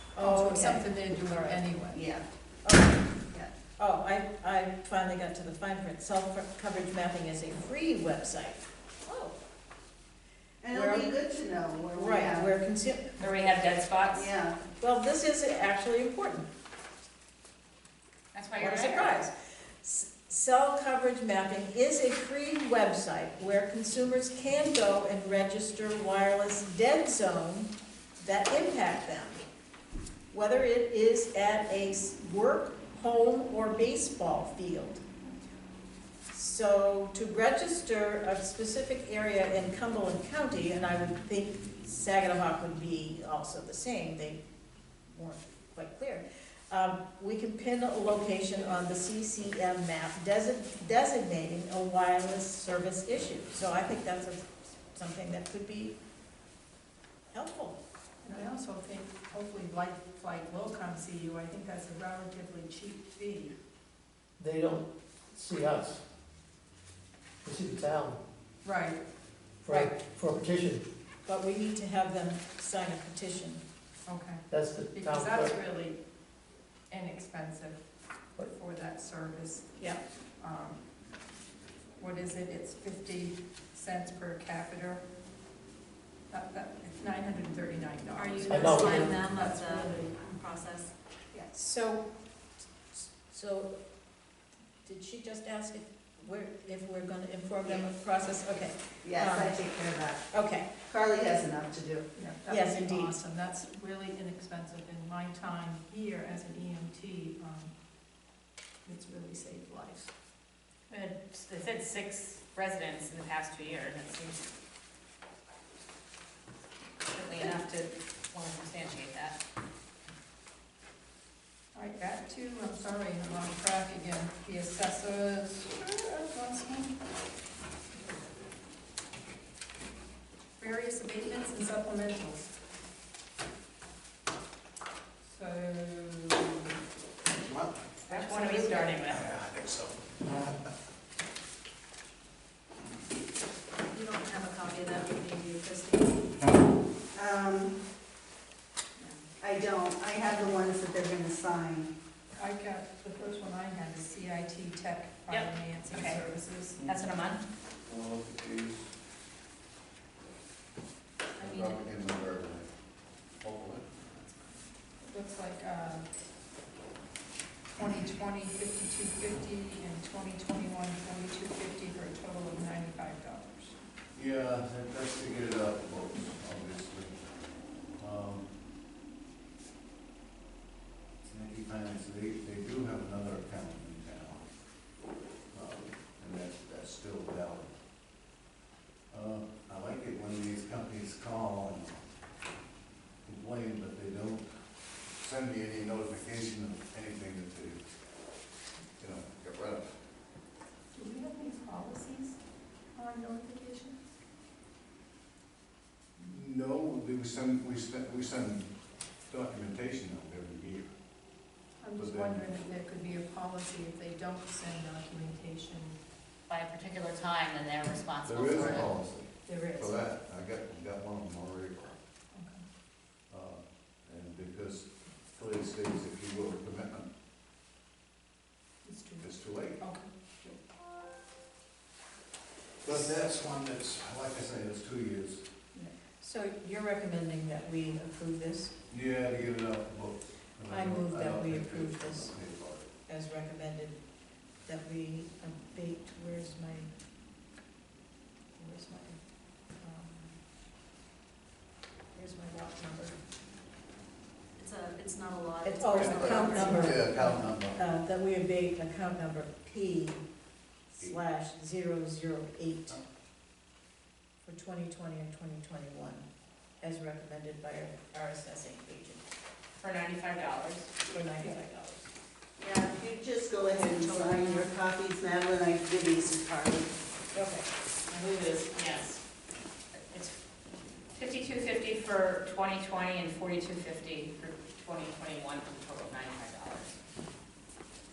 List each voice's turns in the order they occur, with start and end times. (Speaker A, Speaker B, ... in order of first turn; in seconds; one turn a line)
Speaker A: 0.1-1.6
Speaker B: 0.2-2.0
Speaker C: 1.9-2.2
Speaker A: 2.6-3.0
Speaker A: 3.8-9.3
Speaker C: 10.6-12.5
Speaker A: 10.7-11.1
Speaker A: 11.9-13.5
Speaker D: 13.2-14.3
Speaker C: 14.1-14.6
Speaker A: 14.8-16.5
Speaker D: 18.3-19.2
Speaker A: 18.6-29.4
Speaker A: 30.3-35.0
Speaker A: 36.3-44.4
Speaker A: 45.1-56.0
Speaker A: 57.3-57.8
Speaker B: 58.2-63.5
Speaker E: 64.4-66.0
Speaker E: 67.4-68.2
Speaker B: 68.6-69.0
Speaker E: 69.6-70.8
Speaker A: 71.2-73.6
Speaker B: 74.1-76.0
Speaker E: 74.5-75.5
Speaker B: 76.9-77.8
Speaker B: 78.4-79.7
Speaker B: 80.4-80.8
Speaker B: 82.0-85.0
Speaker B: 86.3-90.3
Speaker F: 88.2-90.9
Speaker E: 88.5-89.0
Speaker A: 91.5-92.1
Speaker A: 92.9-93.8
Speaker A: 94.8-99.6
Speaker C: 99.0-100.2
Speaker A: 100.3-100.7
Speaker C: 100.8-102.0
Speaker B: 102.1-107.7
Speaker A: 102.5-103.1
Speaker B: 108.8-110.1
Speaker D: 110.9-114.4
Speaker D: 117.1-119.4
Speaker B: 121.7-127.0
Speaker B: 130.6-132.5
Speaker B: 135.2-136.7
Speaker D: 138.1-139.4
Speaker B: 138.1-138.8
Speaker F: 138.1-138.9
Speaker G: 139.3-139.9
Speaker F: 143.9-146.4
Speaker C: 147.1-147.8
Speaker C: 149.4-151.9
Speaker B: 152.4-156.8
Speaker D: 155.3-156.2
Speaker D: 156.8-157.4
Speaker G: 157.8-158.9
Speaker B: 161.4-161.8
Speaker G: 161.4-162.7
Speaker G: 163.4-163.9
Speaker B: 165.0-166.1
Speaker B: 167.8-173.8
Speaker G: 174.1-177.1
Speaker G: 178.0-178.4
Speaker G: 181.2-184.4
Speaker G: 185.5-187.7
Speaker G: 189.1-192.0
Speaker G: 193.2-194.5
Speaker G: 195.2-197.8
Speaker G: 199.0-200.0
Speaker B: 200.9-202.4
Speaker B: 202.9-204.0
Speaker G: 206.2-208.7
Speaker G: 209.3-210.9
Speaker B: 211.8-215.9
Speaker G: 211.9-212.5
Speaker D: 216.5-218.9
Speaker G: 218.2-222.0
Speaker B: 219.4-220.0
Speaker B: 222.3-222.6
Speaker G: 223.3-227.1
Speaker B: 228.8-230.6
Speaker G: 229.2-229.8
Speaker G: 232.8-235.4
Speaker A: 236.2-238.7
Speaker G: 238.9-242.9
Speaker A: 240.7-242.3
Speaker A: 243.1-244.0
Speaker A: 244.6-246.9
Speaker A: 248.6-249.2
Speaker A: 249.8-250.4
Speaker A: 252.1-253.2
Speaker F: 254.6-257.0
Speaker A: 255.6-260.2
Speaker G: 256.0-257.8
Speaker A: 260.9-263.0
Speaker A: 264.4-266.2
Speaker A: 266.8-269.2
Speaker D: 269.8-270.9
Speaker A: 271.1-272.1
Speaker C: 272.6-276.9
Speaker F: 273.8-274.7
Speaker A: 277.3-277.6
Speaker D: 278.1-279.2
Speaker D: 281.1-286.9